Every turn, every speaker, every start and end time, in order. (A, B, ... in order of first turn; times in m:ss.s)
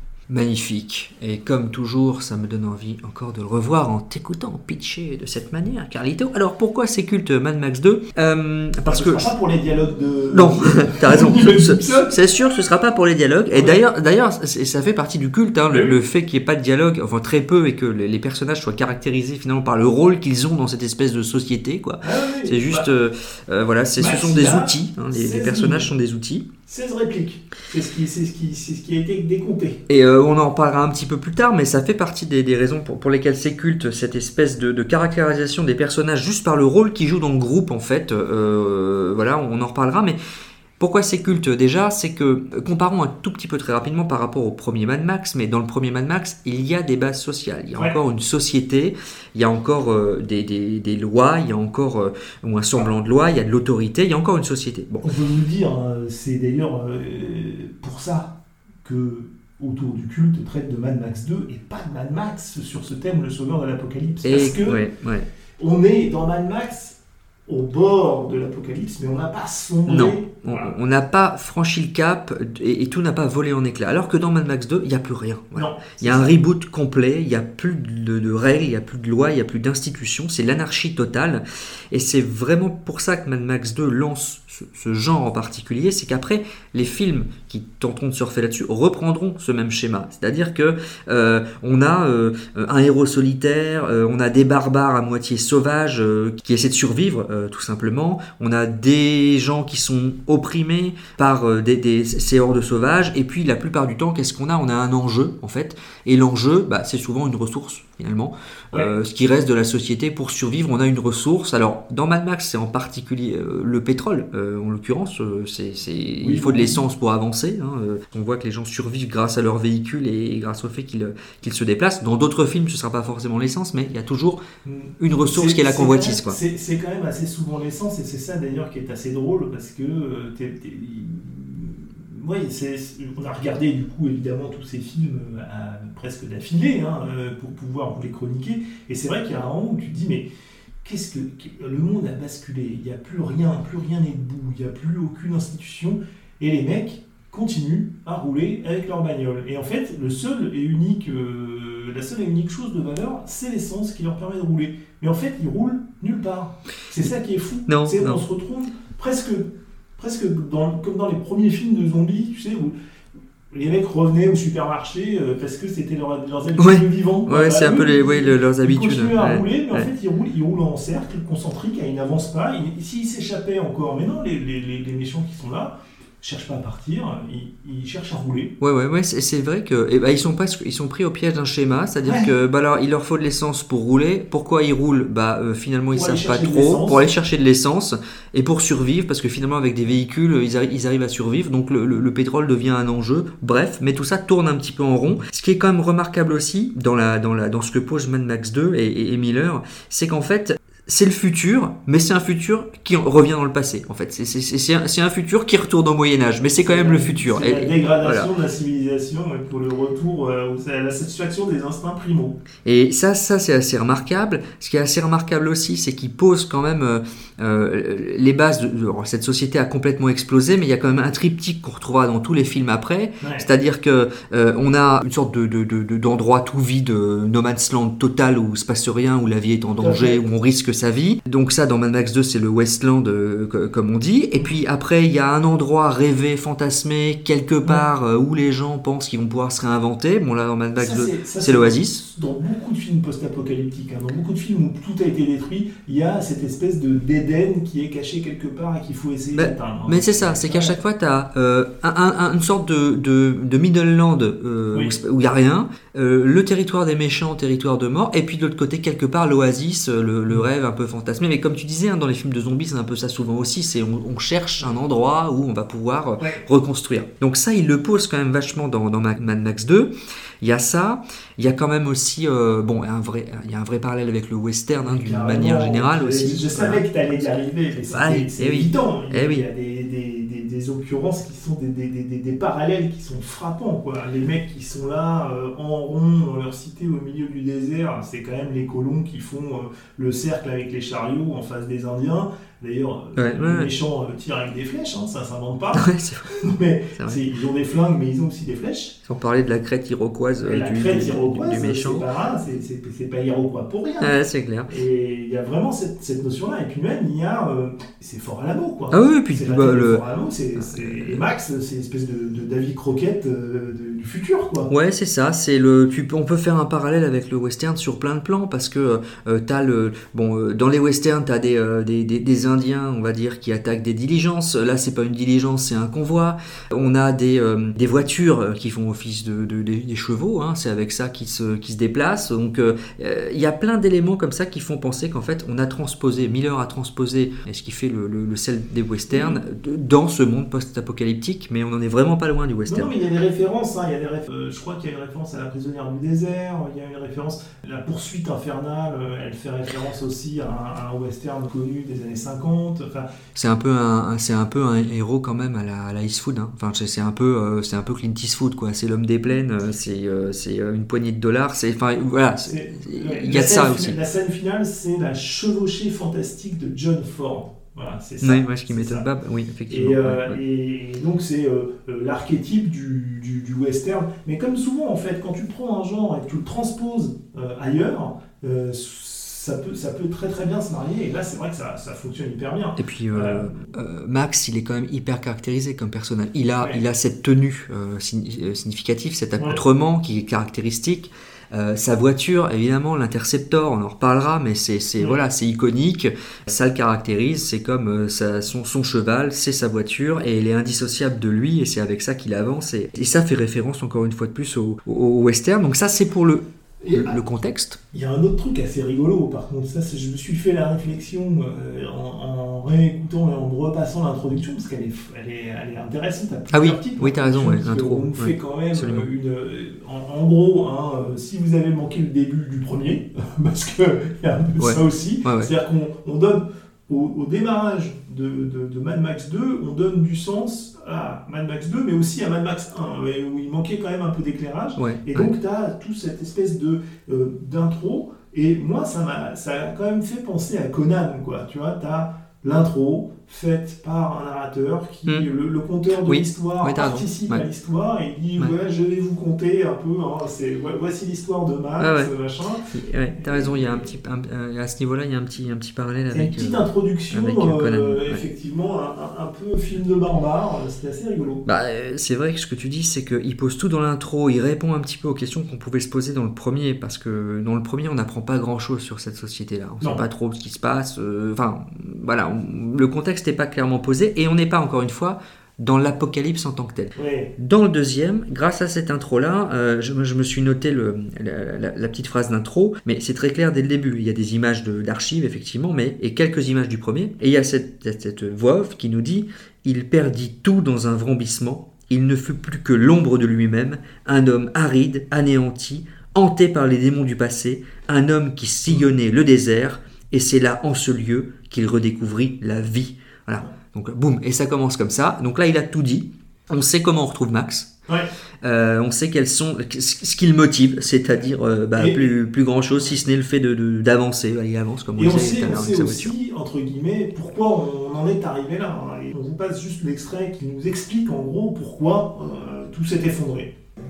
0:00.3-0:09.3 A
0:08.8-0:12.2 B
0:10.3-0:26.5 A
0:13.5-0:13.8 B
0:15.7-0:16.0 B
0:22.0-0:22.9 B
0:24.0-0:25.9 B
0:26.7-0:29.8 B
0:29.9-0:40.2 A
0:40.8-0:55.1 A
0:55.0-1:04.8 B
1:04.2-1:05.2 A
1:05.6-1:10.7 B
1:09.8-2:04.4 A
1:15.5-1:16.3 B
1:56.2-1:56.8 B
2:04.6-2:20.3 B
2:05.0-2:06.4 A
2:20.8-2:42.7 B
2:37.7-2:38.2 A
2:43.5-2:58.5 B
2:46.6-2:49.9 A
2:58.6-3:28.3 A
3:02.0-3:02.3 B
3:05.9-3:07.1 B
3:26.6-3:32.4 B
3:32.6-4:02.0 A
3:49.8-3:50.2 B
4:00.8-4:10.8 B
4:09.3-4:37.2 A
4:26.2-4:26.4 B
4:34.9-4:59.0 B
4:37.8-4:39.5 A
4:53.2-4:53.7 A
4:55.7-4:56.2 A
4:57.0-4:57.2 A
4:59.0-5:02.1 A
5:00.4-5:04.1 B
5:04.0-5:04.7 A
5:04.7-5:14.7 B
5:08.9-5:10.0 A
5:10.6-5:11.2 A
5:14.7-5:42.9 A
5:39.1-5:39.4 B
5:42.7-5:53.1 B
5:53.3-6:04.0 A
6:02.4-6:09.1 B
6:08.2-6:10.4 A
6:09.7-6:23.6 B
6:22.8-6:47.8 A
6:46.8-6:47.2 B
6:47.9-7:33.9 B
6:56.5-6:59.1 A
7:04.6-7:05.5 A
7:14.8-7:15.3 A
7:25.9-7:27.4 A
7:31.8-7:32.1 A
7:32.7-7:38.2 A
7:36.1-7:41.4 B
7:41.4-8:27.7 A
7:57.0-7:57.3 B
8:28.4-8:36.1 A
8:31.8-8:32.1 B
8:35.0-8:43.5 B